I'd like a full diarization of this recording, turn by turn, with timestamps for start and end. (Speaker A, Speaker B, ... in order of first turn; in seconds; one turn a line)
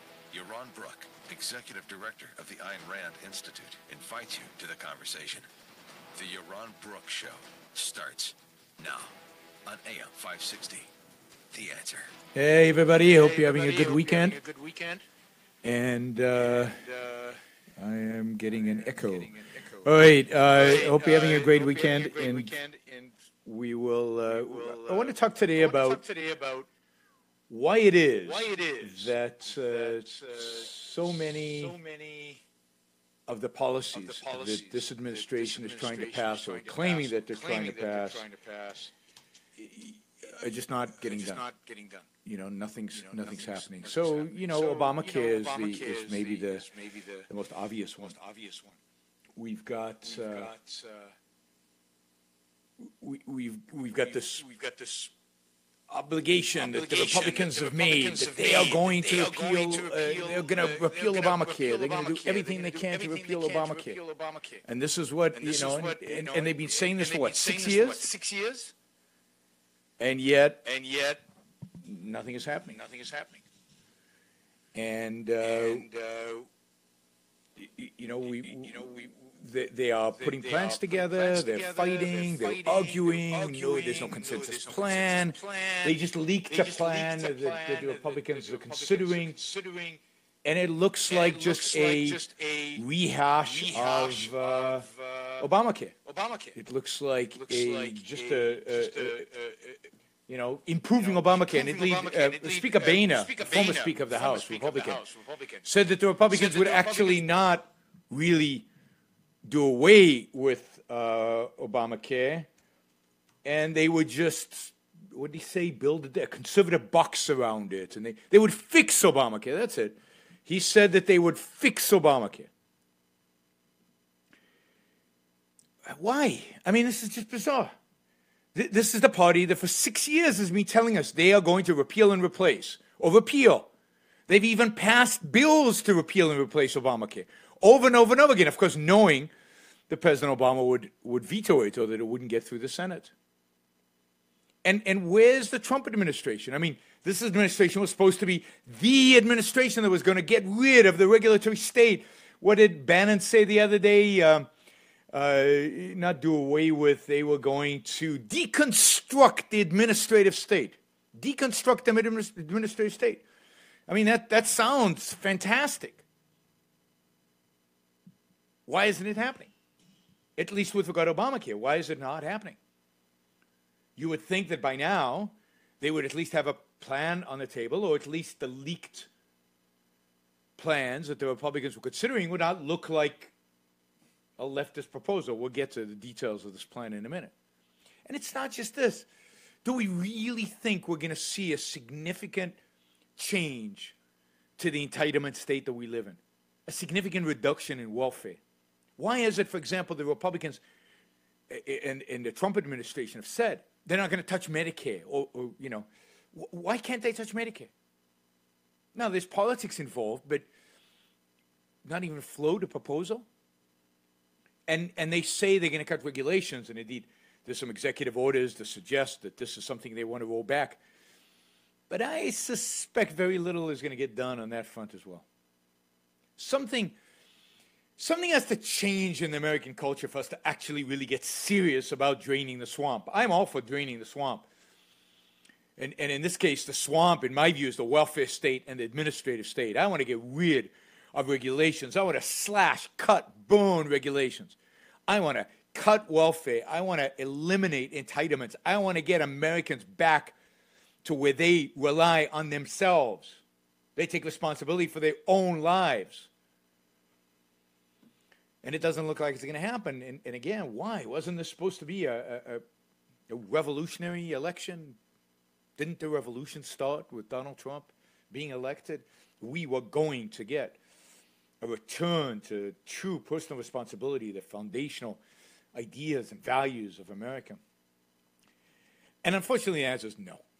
Speaker A: 0.3-5.5
Speaker A: 6.1-9.1
Speaker A: 9.6-10.9
Speaker A: 11.5-12.1
Speaker B: 12.3-14.4
Speaker C: 13.0-15.0
Speaker B: 15.6-16.8
Speaker C: 16.3-17.4
Speaker B: 17.8-19.3
Speaker C: 18.5-23.1
Speaker B: 19.8-22.5
Speaker B: 23.4-26.0
Speaker C: 24.3-26.7
Speaker B: 27.5-31.8
Speaker C: 28.2-32.4
Speaker B: 33.3-38.2
Speaker C: 33.9-38.9
Speaker B: 39.6-41.4
Speaker C: 40.9-42.1
Speaker B: 42.2-46.7
Speaker C: 42.9-47.3
Speaker B: 47.3-48.1
Speaker C: 48.0-48.8
Speaker B: 49.4-50.5
Speaker C: 50.0-51.1
Speaker B: 52.8-54.5
Speaker C: 54.0-55.1
Speaker B: 55.9-64.0
Speaker C: 56.5-64.6
Speaker B: 64.7-68.1
Speaker C: 65.3-68.7
Speaker B: 70.0-70.6
Speaker C: 70.6-71.2
Speaker B: 71.8-72.8
Speaker C: 72.7-73.4
Speaker B: 74.7-75.8
Speaker C: 75.4-76.5
Speaker B: 77.6-89.4
Speaker C: 78.2-79.3
Speaker C: 80.2-90.0
Speaker B: 90.4-94.9
Speaker C: 91.0-92.8
Speaker C: 93.4-95.5
Speaker B: 95.4-96.0
Speaker C: 96.0-96.6
Speaker B: 96.5-99.3
Speaker C: 97.3-99.9
Speaker B: 100.3-105.0
Speaker C: 101.0-105.7
Speaker B: 105.6-108.7
Speaker C: 106.3-107.3
Speaker B: 109.4-112.5
Speaker B: 113.4-122.5
Speaker B: 125.8-127.7
Speaker B: 128.5-133.7
Speaker B: 134.3-139.3
Speaker B: 139.9-143.1
Speaker B: 144.6-154.5
Speaker B: 155.1-163.2
Speaker B: 163.9-166.0
Speaker B: 168.7-169.5
Speaker B: 170.3-172.6
Speaker B: 173.9-179.1
Speaker B: 180.6-183.3
Speaker B: 184.4-187.3
Speaker B: 188.1-189.1
Speaker B: 189.6-192.6
Speaker B: 193.2-193.9
Speaker B: 194.6-198.4
Speaker B: 199.0-200.6
Speaker B: 201.5-207.7
Speaker B: 208.9-210.5
Speaker B: 211.8-213.2
Speaker B: 214.7-220.8
Speaker B: 221.9-225.2
Speaker B: 226.4-226.9
Speaker B: 228.0-234.4
Speaker B: 235.8-250.3
Speaker B: 251.0-253.4
Speaker B: 253.9-256.3
Speaker B: 258.6-262.6
Speaker B: 263.3-265.0
Speaker B: 265.8-270.8
Speaker B: 271.6-275.2
Speaker B: 275.7-277.6
Speaker B: 279.2-280.4